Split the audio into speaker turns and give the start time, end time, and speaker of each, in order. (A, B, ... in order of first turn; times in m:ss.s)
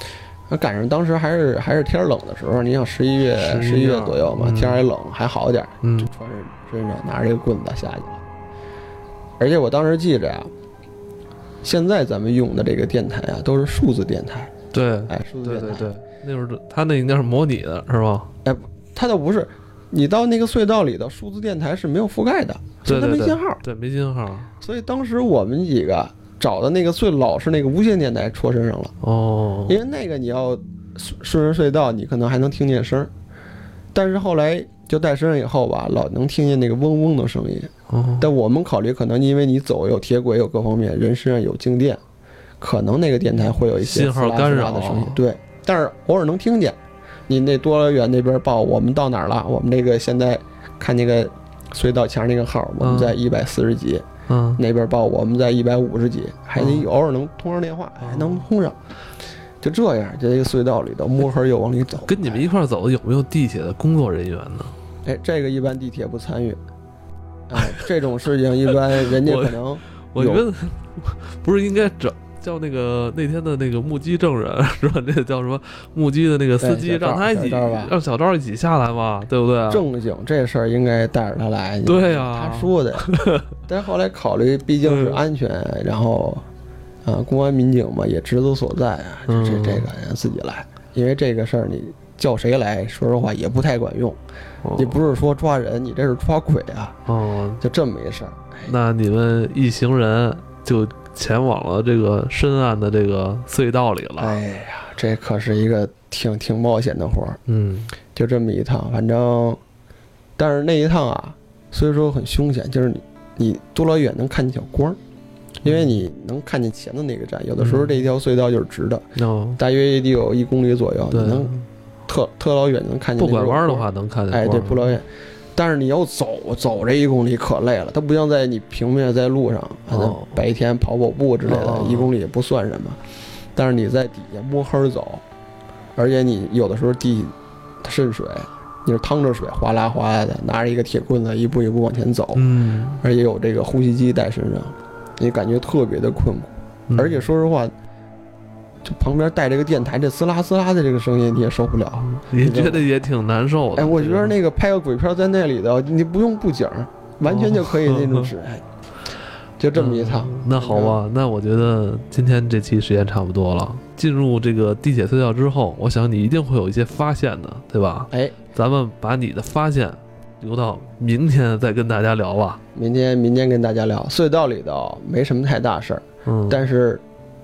0:00.5-0:08.2 A
0:03.4-0:04.8 B
0:05.8-0:06.1 B
0:09.4-0:10.5 A
0:11.6-0:14.5 A
0:14.7-0:18.3 B
0:15.1-0:15.9 A
0:18.4-0:23.6 A
0:22.8-0:24.5 B
0:24.6-0:28.9 A
0:29.0-0:29.8 B
0:29.7-0:33.1 A
0:33.9-0:42.0 A
0:37.9-0:38.3 B
0:42.6-0:46.8 A
0:43.8-0:45.2 B
0:47.3-0:54.0 A
0:52.8-0:53.2 B
0:54.3-0:54.6 B
0:54.6-0:58.8 A
0:56.6-0:56.9 B
0:58.0-0:58.4 B
0:59.6-1:02.4 A
1:02.0-1:04.8 B
1:05.0-1:06.6 A
1:07.5-1:10.4 A
1:07.6-1:07.8 B
1:09.0-1:19.9 B
1:16.6-1:17.9 A
1:19.7-1:26.4 A
1:21.8-1:23.5 B
1:24.8-1:25.2 B
1:27.0-1:34.2 A
1:29.3-1:29.9 B
1:34.6-1:35.0 B
1:34.7-1:37.0 A
1:37.1-1:37.6 B
1:37.6-1:38.7 A
1:38.6-1:44.4 B
1:44.2-1:47.4 A
1:47.5-1:47.9 B
1:48.1-1:49.6 A
1:50.4-1:55.0 A
1:55.6-1:59.0 A
1:55.6-1:56.0 B
1:57.6-1:58.0 B
1:59.2-1:59.6 B
1:59.6-2:01.6 A
2:01.1-2:01.6 B
2:02.1-2:13.0 A
2:03.2-2:04.9 B
2:09.9-2:10.4 B
2:11.4-2:12.1 B
2:13.5-2:15.2 A
2:16.0-2:22.5 A
2:22.3-2:23.0 B
2:23.0-2:27.7 A
2:26.9-2:27.2 B
2:28.8-2:32.8 A
2:32.0-2:34.4 B
2:33.7-2:38.6 A
2:37.2-2:38.3 B
2:39.6-2:41.0 A
2:39.7-2:52.6 B
2:52.7-2:57.0 A
2:56.2-2:56.6 B